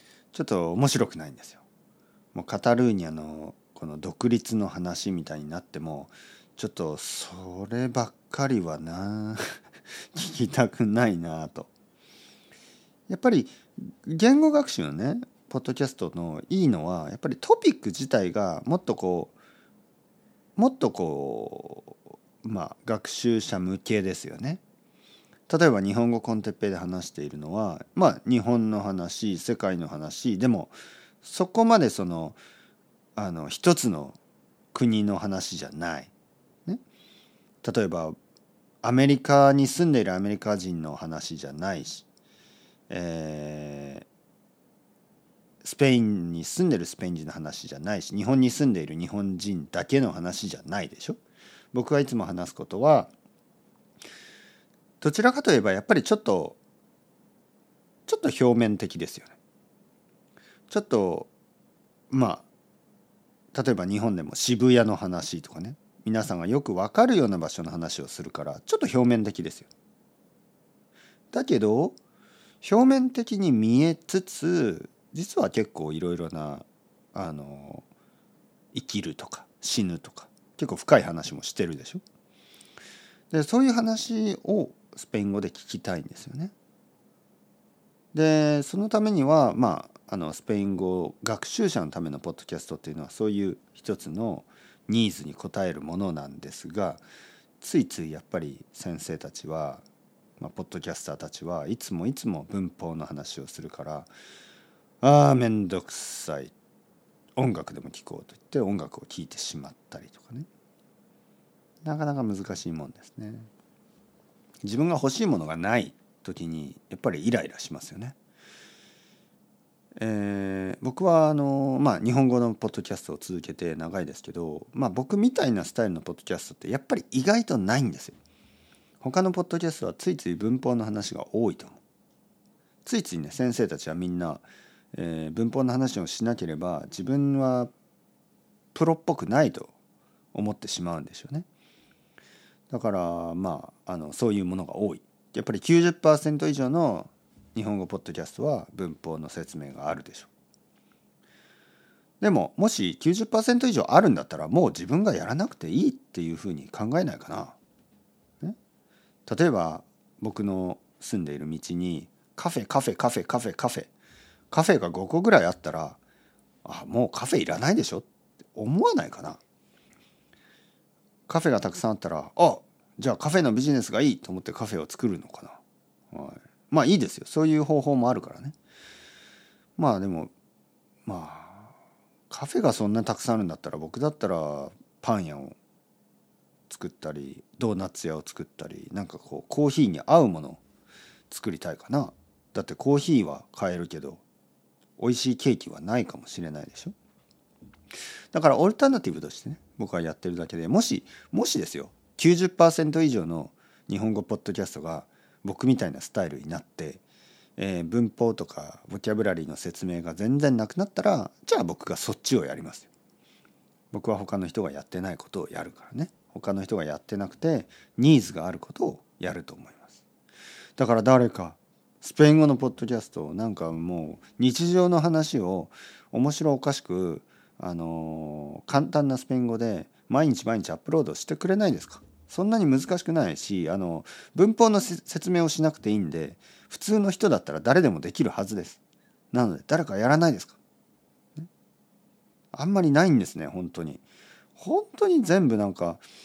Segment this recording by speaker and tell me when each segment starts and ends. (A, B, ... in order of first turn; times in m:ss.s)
0:00.3-0:01.6 A
0:02.3-0:09.4 A
0:10.1-0:11.7 A
0:13.1-0:19.3 A
0:20.6-0:24.6 A
0:25.5-0:32.4 A
0:33.2-0:34.2 A
0:34.7-0:36.1 A
0:37.6-0:38.2 A
0:38.8-0:42.0 A
0:42.9-0:44.0 A
0:45.6-0:51.2 A
0:51.7-0:53.1 A
0:55.0-0:56.6 A
0:58.1-0:59.4 A
1:00.7-1:01.3 A
1:02.1-1:02.5 A
1:03.5-1:09.7 A
1:11.3-1:12.0 A
1:12.6-1:17.8 A
1:18.7-1:22.0 A
1:23.3-1:26.5 A
1:28.1-1:37.0 A
1:37.6-1:39.8 A
1:40.4-1:44.1 A
1:45.0-1:46.5 A
1:47.4-1:50.5 A
1:51.8-1:53.5 A
1:54.6-1:58.2 A
2:00.0-2:08.2 A
2:09.0-2:11.8 A
2:12.8-2:17.7 A
2:18.7-2:19.7 A
2:20.3-2:21.5 A
2:22.7-2:30.3 A
2:32.2-2:37.6 A
2:39.2-2:43.9 A
2:44.5-2:46.0 A
2:46.6-2:49.4 A
2:51.3-2:55.6 A
2:56.1-2:58.6 A
2:59.8-3:00.3 A
3:01.0-3:01.7 A
3:02.3-3:05.6 A
3:06.7-3:10.6 A
3:11.3-3:14.2 A
3:15.0-3:16.9 A
3:18.3-3:27.0 A
3:27.6-3:32.9 A
3:33.9-3:39.9 A
3:40.8-3:58.8 A
3:59.3-4:00.6 A
4:02.5-4:04.0 A
4:04.6-4:06.0 A